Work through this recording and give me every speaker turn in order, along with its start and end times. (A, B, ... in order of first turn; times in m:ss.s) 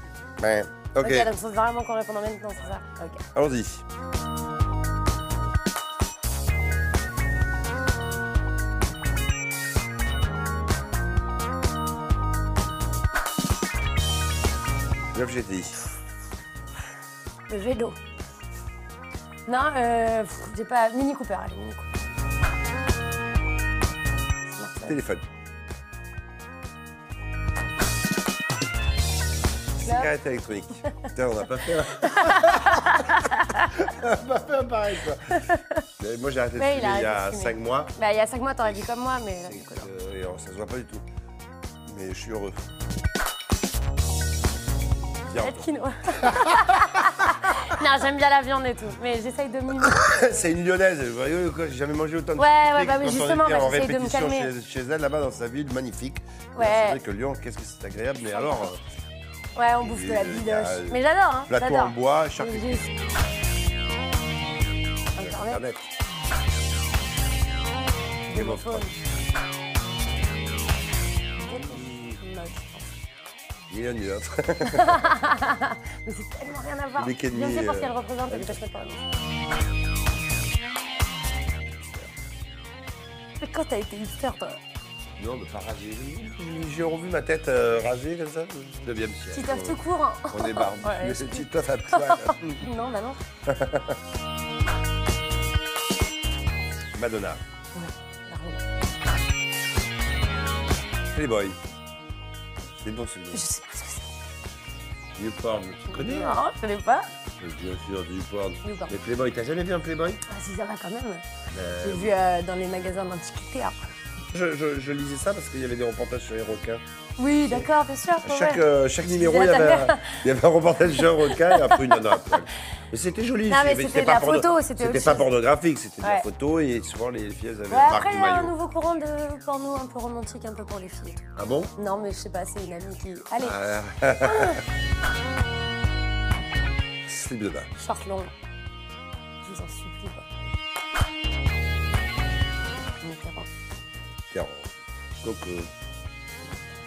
0:00.4-0:01.3 A
0:01.0-0:03.2 B
0:03.3-0:03.8 A
0:15.1-0:15.8 A
0:17.5-0:18.0 B
0:19.5-0:21.9 B
0:24.5-0:25.0 B
0:24.8-0:25.2 A
0:29.8-0:37.9 A
0:29.8-0:30.1 B
0:32.0-0:33.6 B
0:35.3-0:35.8 B
0:36.6-0:39.9 B
0:39.4-0:41.0 A
0:41.8-0:42.6 A
0:45.3-0:47.7 A
0:45.4-0:50.0 B
0:49.8-0:58.8 A
0:52.4-0:54.5 B
0:56.5-0:57.0 B
0:58.4-0:58.6 B
0:59.6-1:02.9 B
0:59.8-1:02.9 A
1:05.2-1:05.6 B
1:05.2-1:05.9 A
1:08.2-1:09.0 B
1:08.3-1:08.9 A
1:11.3-1:12.9 B
1:13.7-1:15.2 A
1:14.6-1:19.0 B
1:17.0-1:18.6 A
1:21.8-1:22.1 A
1:23.4-1:24.6 B
1:25.2-1:32.7 A
1:29.3-1:33.2 B
1:33.5-1:34.0 A
1:36.9-1:37.4 A
1:37.7-1:38.6 B
1:41.1-1:41.6 A
1:42.8-1:43.4 A
1:43.3-1:44.2 B
1:45.2-1:46.4 A
1:45.9-1:47.1 B
1:47.4-1:50.2 A
1:48.6-1:48.9 B
1:50.3-1:51.2 B
1:51.5-1:52.2 A
1:51.8-1:53.8 B
1:54.3-1:56.8 A
1:57.2-2:00.2 B
1:58.2-2:08.5 A
2:00.9-2:02.4 B
2:03.5-2:05.3 B
2:06.0-2:06.3 B
2:07.7-2:14.6 B
2:11.4-2:11.7 A
2:13.4-2:14.6 A
2:17.1-2:17.7 A
2:17.8-2:18.3 B
2:19.4-2:20.3 B
2:23.0-2:23.5 B
2:24.3-2:24.7 A
2:25.2-2:25.7 A